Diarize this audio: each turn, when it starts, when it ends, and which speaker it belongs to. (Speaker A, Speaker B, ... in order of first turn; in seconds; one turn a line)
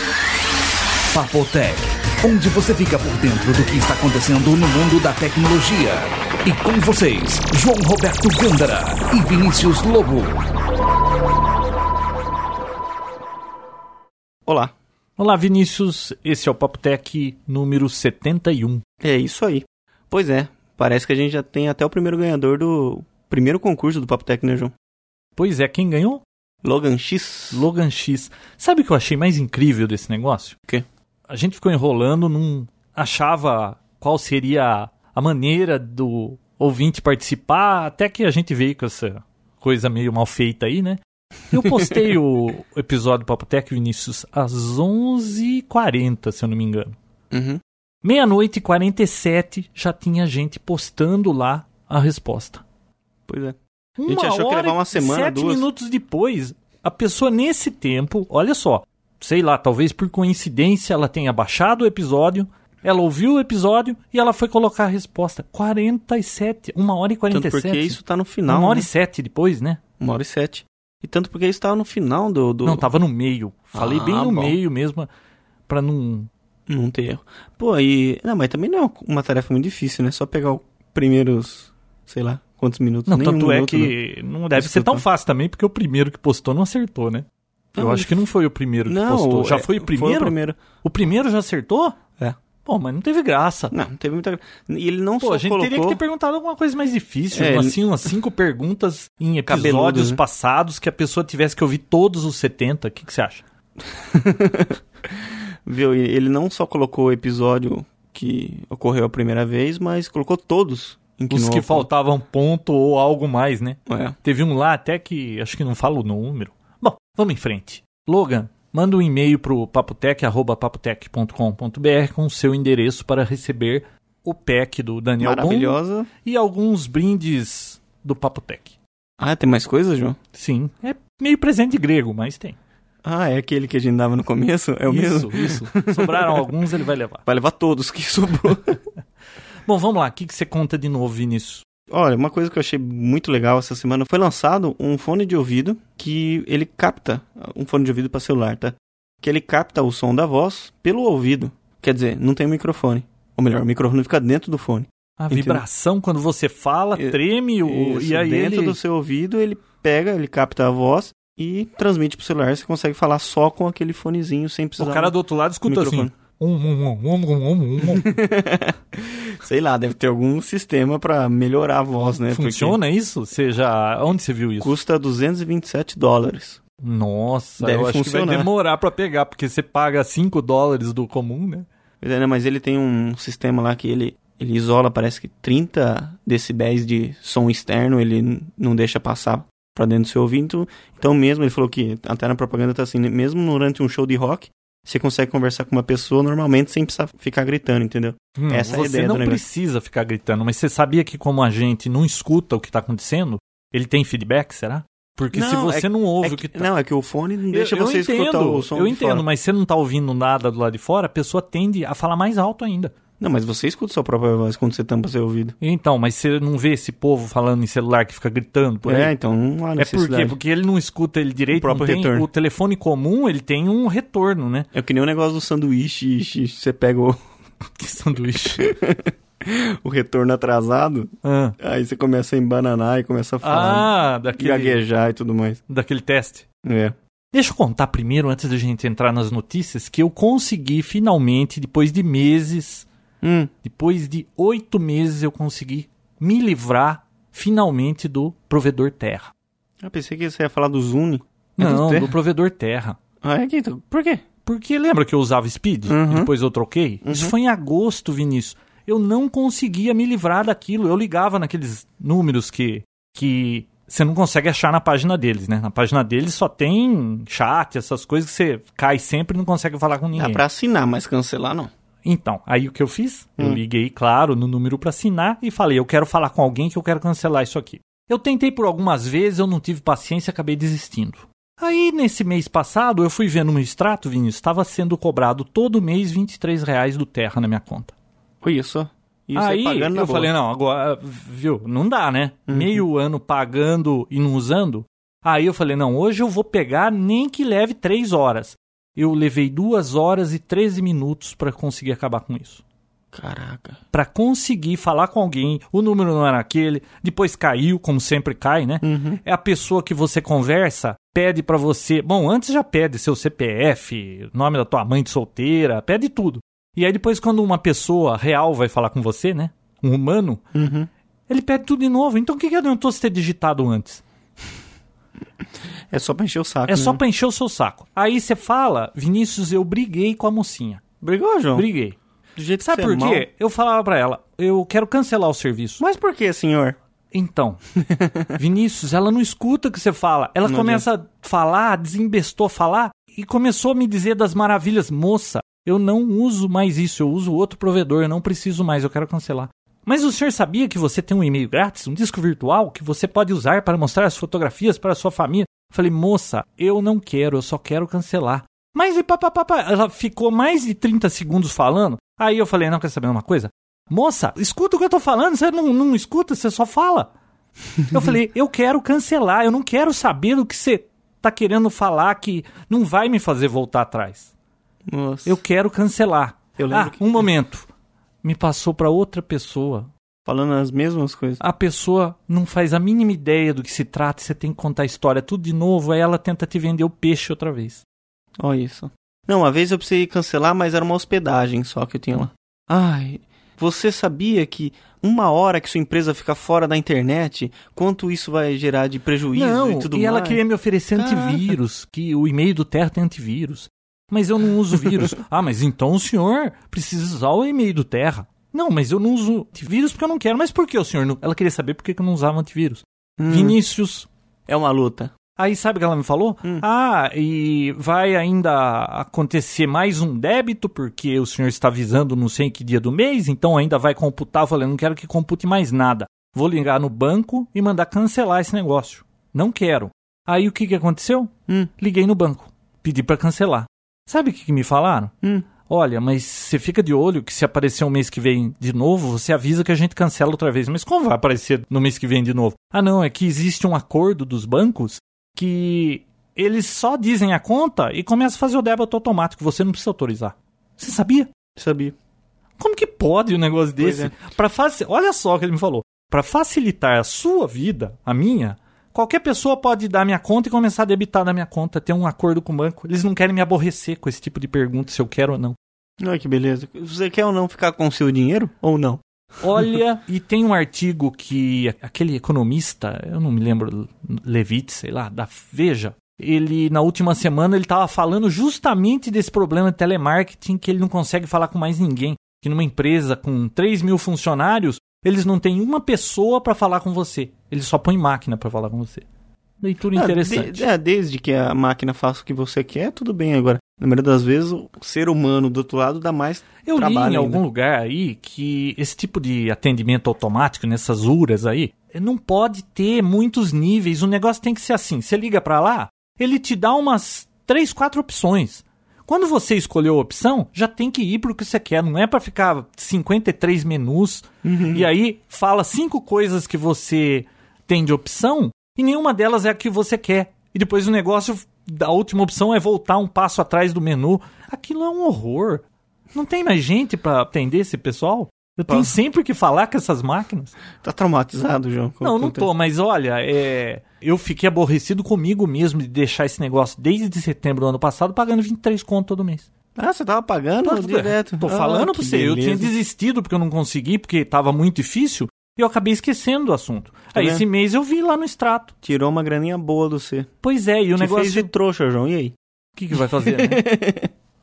Speaker A: 1.1-10.4
Speaker B: 14.5-14.7
Speaker C: 15.2-18.8
Speaker B: 19.0-24.7
Speaker C: 25.4-26.2
Speaker B: 26.6-27.6
Speaker C: 27.5-30.6
Speaker C: 31.3-47.0
Speaker B: 47.3-47.6
Speaker C: 48.0-52.6
Speaker B: 53.3-55.6
Speaker C: 54.0-69.8
Speaker B: 67.3-68.9
Speaker B: 70.0-72.9
Speaker C: 72.7-75.1
Speaker B: 73.7-74.6
Speaker C: 75.7-76.3
Speaker B: 76.7-84.0
Speaker C: 83.1-87.3
Speaker B: 84.5-85.0
Speaker B: 87.8-88.1
Speaker C: 87.8-92.0
Speaker B: 88.9-90.6
Speaker C: 92.7-93.7
Speaker B: 93.7-96.0
Speaker C: 95.2-103.4
Speaker B: 97.3-97.8
Speaker B: 99.5-100.2
Speaker B: 103.9-111.9
Speaker C: 111.3-128.7
Speaker B: 113.9-114.2
Speaker B: 125.2-126.1
Speaker B: 129.2-130.2
Speaker C: 130.3-132.6
Speaker B: 133.0-136.5
Speaker C: 134.9-137.2
Speaker B: 137.3-138.8
Speaker C: 139.6-141.7
Speaker B: 141.9-155.6
Speaker C: 155.2-158.8
Speaker B: 157.0-166.1
Speaker C: 164.8-168.1
Speaker B: 167.8-172.8
Speaker C: 172.3-174.7
Speaker B: 174.6-176.6
Speaker C: 176.8-181.7
Speaker B: 177.6-178.5
Speaker B: 182.0-199.4
Speaker C: 198.4-206.7
Speaker B: 205.3-209.2
Speaker C: 207.5-212.9
Speaker B: 213.2-215.6
Speaker C: 215.6-219.1
Speaker B: 218.8-220.4
Speaker C: 219.8-224.7
Speaker B: 221.5-222.3
Speaker B: 224.7-227.2
Speaker C: 227.7-228.7
Speaker B: 228.6-235.6
Speaker C: 231.2-231.6
Speaker C: 233.4-234.8
Speaker C: 235.7-236.4
Speaker B: 236.6-237.0
Speaker C: 237.3-242.9
Speaker B: 243.2-243.5
Speaker C: 243.6-249.3
Speaker B: 249.8-252.1
Speaker C: 251.6-253.0
Speaker B: 253.2-254.2
Speaker C: 254.4-270.4
Speaker B: 255.9-256.3
Speaker B: 257.1-257.3
Speaker B: 270.1-271.7
Speaker C: 272.0-287.9
Speaker B: 288.4-290.3
Speaker C: 289.4-302.6
Speaker B: 292.5-292.8
Speaker B: 303.1-303.8
Speaker C: 303.9-320.4
Speaker B: 308.8-309.2
Speaker B: 320.5-320.9
Speaker C: 321.3-324.0
Speaker B: 325.9-327.0
Speaker C: 326.7-330.8
Speaker B: 331.0-331.7
Speaker C: 331.6-332.0
Speaker B: 332.4-333.3
Speaker C: 332.6-335.8
Speaker B: 335.8-336.8
Speaker C: 337.1-337.6
Speaker B: 337.8-338.4
Speaker C: 338.4-367.1
Speaker B: 340.4-340.9
Speaker C: 367.9-374.3
Speaker B: 374.9-375.4
Speaker C: 375.3-377.7
Speaker B: 376.6-377.3
Speaker C: 378.2-379.9
Speaker B: 380.3-381.4
Speaker C: 381.4-387.8
Speaker B: 388.4-400.4
Speaker C: 399.3-414.1
Speaker B: 400.9-401.5
Speaker B: 413.2-413.6
Speaker B: 414.5-415.1
Speaker C: 415.4-435.1
Speaker B: 435.2-435.5
Speaker C: 435.6-451.3
Speaker B: 451.6-451.9
Speaker C: 452.6-465.6
Speaker B: 453.8-454.1
Speaker B: 466.0-469.0
Speaker C: 469.4-489.1
Speaker C: 489.6-490.7
Speaker B: 489.9-497.4
Speaker C: 496.7-530.5
Speaker B: 514.4-514.9
Speaker B: 528.7-529.0
Speaker B: 530.8-532.5
Speaker C: 532.0-539.5
Speaker B: 539.8-542.7
Speaker C: 540.6-548.7
Speaker B: 547.1-547.4
Speaker B: 548.8-550.3
Speaker C: 550.4-551.5
Speaker B: 551.0-552.4
Speaker C: 552.8-553.6
Speaker B: 553.0-554.1